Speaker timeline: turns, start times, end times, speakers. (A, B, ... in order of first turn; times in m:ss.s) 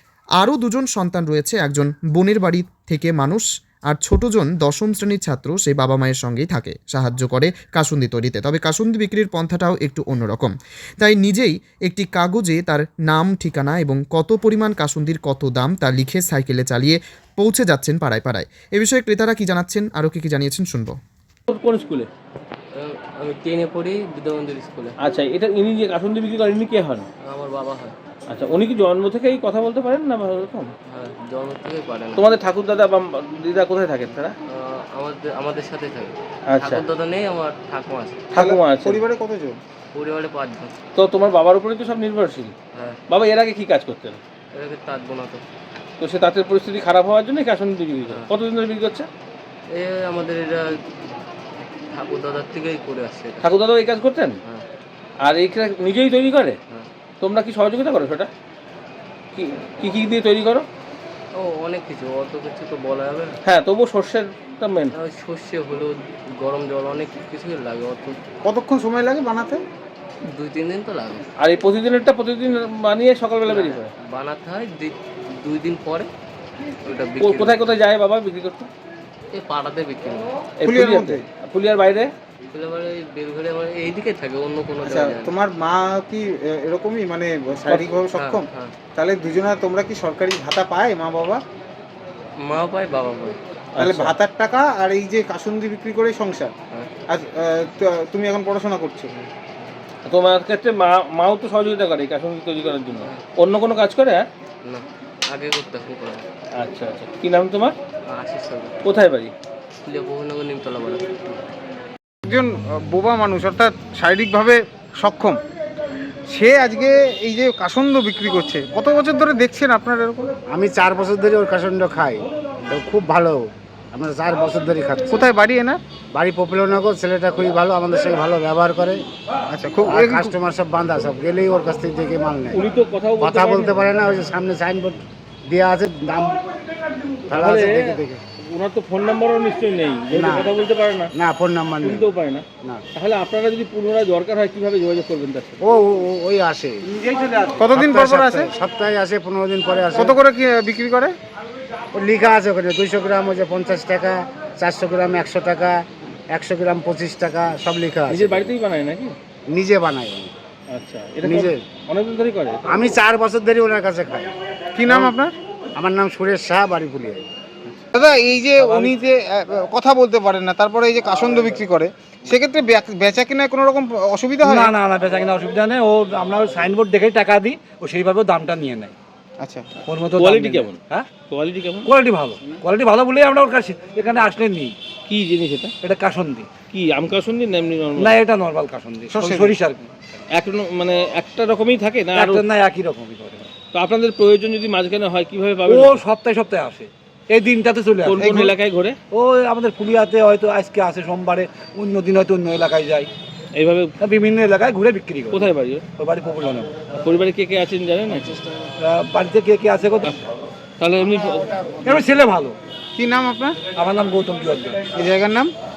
0:00.4-0:21.0 A
0:21.5-0:22.1 B
0:22.7-0:25.0 C
0:25.0-0:27.1 B
0:27.2-0:28.0 C
0:28.3-0:30.7 B
0:30.9-0:32.3 C
0:32.2-0:34.3 B
0:34.5-0:38.2 C
0:36.5-0:36.8 B
0:38.3-0:39.0 B
0:38.4-0:39.6 D
0:39.9-0:40.8 C
0:41.0-0:42.5 B
0:42.7-0:43.0 C
0:43.1-0:44.2 B
0:44.5-0:45.4 C
0:46.0-0:49.1 B
0:49.7-0:50.8 C
0:51.9-0:53.5 C
0:53.4-0:54.4 B
0:55.2-0:56.6 B
0:57.2-0:58.3 B
0:59.3-1:00.7 B
1:01.3-1:03.4 C
1:03.4-1:04.9 B
1:04.9-1:08.2 C
1:08.4-1:09.6 D
1:10.3-1:11.3 C
1:11.4-1:13.9 B
1:13.5-1:16.1 C
1:16.8-1:17.7 C
1:17.2-1:18.7 B
1:19.3-1:20.3 C
1:20.6-1:22.1 B
1:20.6-1:21.2 D
1:22.5-1:25.3 C
1:24.8-1:31.4 D
1:27.7-1:28.0 B
1:28.2-1:28.7 C
1:32.4-1:33.4 C
1:33.8-1:34.2 B
1:33.8-1:36.5 D
1:37.1-1:39.1 D
1:40.1-1:44.3 B
1:44.6-1:46.3 C
1:46.6-1:47.8 B
1:48.1-1:48.8 C
1:48.8-1:49.3 B
1:49.8-1:51.2 C
1:52.2-1:55.4 D
1:56.3-2:00.3 D
2:00.5-2:05.2 E
2:05.1-2:05.8 D
2:06.1-2:09.0 E
2:09.5-2:10.4 D
2:09.8-2:12.6 E
2:12.5-2:13.8 B
2:13.2-2:16.4 E
2:17.3-2:18.2 E
2:17.3-2:21.1 B
2:20.2-2:20.5 E
2:21.2-2:22.0 E
2:21.8-2:25.6 B
2:25.6-2:26.9 E
2:27.0-2:27.8 F
2:27.6-2:28.5 D
2:27.8-2:30.2 E
2:30.0-2:31.1 D
2:31.9-2:38.5 E
2:38.1-2:39.2 B
2:39.5-2:40.3 E
2:40.7-2:42.6 B
2:41.2-2:41.6 E
2:42.7-2:44.3 E
2:44.8-2:45.3 D
2:45.8-2:47.2 E
2:48.0-2:54.7 D
2:48.6-2:48.9 F
2:54.4-2:58.9 F
2:59.4-2:59.7 D
2:59.9-3:01.1 F
3:00.2-3:01.9 B
3:01.9-3:04.8 F
3:05.1-3:05.7 B
3:05.8-3:06.5 F
3:06.7-3:08.2 B
3:08.0-3:09.9 F
3:09.1-3:09.6 D
3:10.3-3:12.5 B
3:12.2-3:13.5 F
3:13.7-3:16.0 B
3:15.7-3:18.5 F
3:18.0-3:19.0 B
3:18.2-3:18.5 D
3:19.1-3:23.1 F
3:23.6-3:23.9 B
3:24.0-3:26.7 F
3:25.3-3:25.8 B
3:26.9-3:28.4 B
3:28.8-3:30.2 F
3:30.8-3:32.0 B
3:31.8-3:32.6 F
3:33.0-3:33.6 D
3:33.8-3:34.8 F
3:35.0-3:35.5 D